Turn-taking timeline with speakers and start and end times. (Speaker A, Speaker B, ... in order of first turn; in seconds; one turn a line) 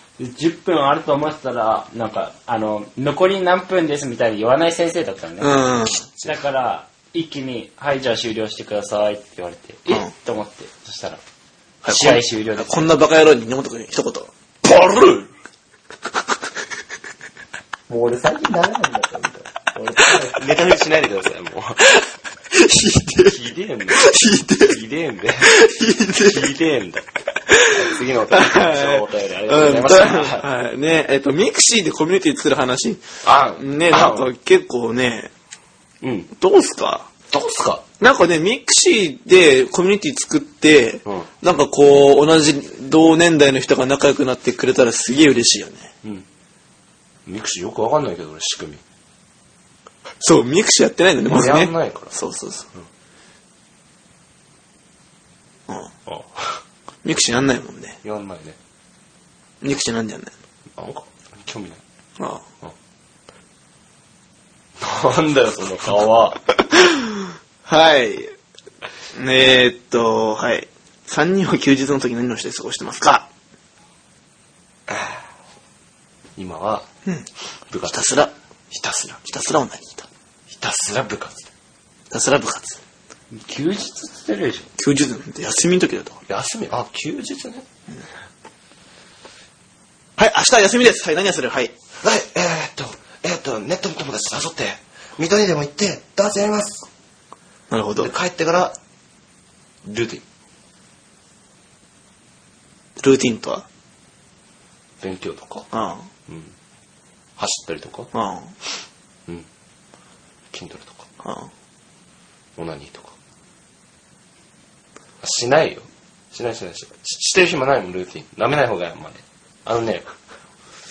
Speaker A: 0.2-5.6
Speaker B: 5.4-6.0
Speaker A: 6.2-11.2
Speaker B: 11.8-14.3
Speaker A: 11.9-12.9
Speaker C: 14.6-15.3
Speaker A: 17.9-20.4
Speaker C: 20.1-21.9
Speaker B: 22.5-23.4
Speaker C: 23.2-25.5
Speaker B: 23.9-24.8
Speaker B: 25.4-26.5
Speaker C: 26.2-27.1
Speaker B: 27.5-33.0
Speaker C: 27.6-30.5
Speaker C: 33.2-34.3
Speaker B: 33.6-35.3
Speaker C: 36.0-36.3
Speaker B: 36.4-37.1
Speaker C: 37.3-37.8
Speaker B: 38.0-45.9
Speaker C: 47.2-48.8
Speaker B: 50.2-52.7
Speaker C: 51.2-52.1
Speaker B: 55.7-55.9
Speaker C: 56.1-56.6
Speaker B: 57.0-58.0
Speaker C: 58.0-58.6
Speaker B: 59.6-60.3
Speaker C: 60.8-61.8
Speaker C: 64.8-66.4
Speaker B: 66.8-68.3
Speaker B: 69.1-73.3
Speaker C: 74.9-75.2
Speaker C: 76.3-76.9
Speaker C: 77.7-78.2
Speaker B: 77.9-78.3
Speaker C: 78.7-79.2
Speaker B: 79.2-80.1
Speaker C: 80.5-81.5
Speaker B: 82.1-82.8
Speaker A: 83.3-84.7
Speaker B: 84.8-86.2
Speaker C: 86.3-87.6
Speaker B: 90.2-91.7
Speaker C: 92.0-96.9
Speaker B: 97.7-98.1
Speaker C: 98.0-98.8
Speaker C: 99.8-100.2
Speaker B: 103.0-103.6
Speaker C: 105.0-105.7
Speaker B: 105.7-106.1
Speaker C: 106.3-106.5
Speaker C: 107.4-108.1
Speaker B: 108.1-108.5
Speaker C: 110.5-111.1
Speaker B: 111.2-111.5
Speaker C: 112.5-113.1
Speaker C: 115.2-120.1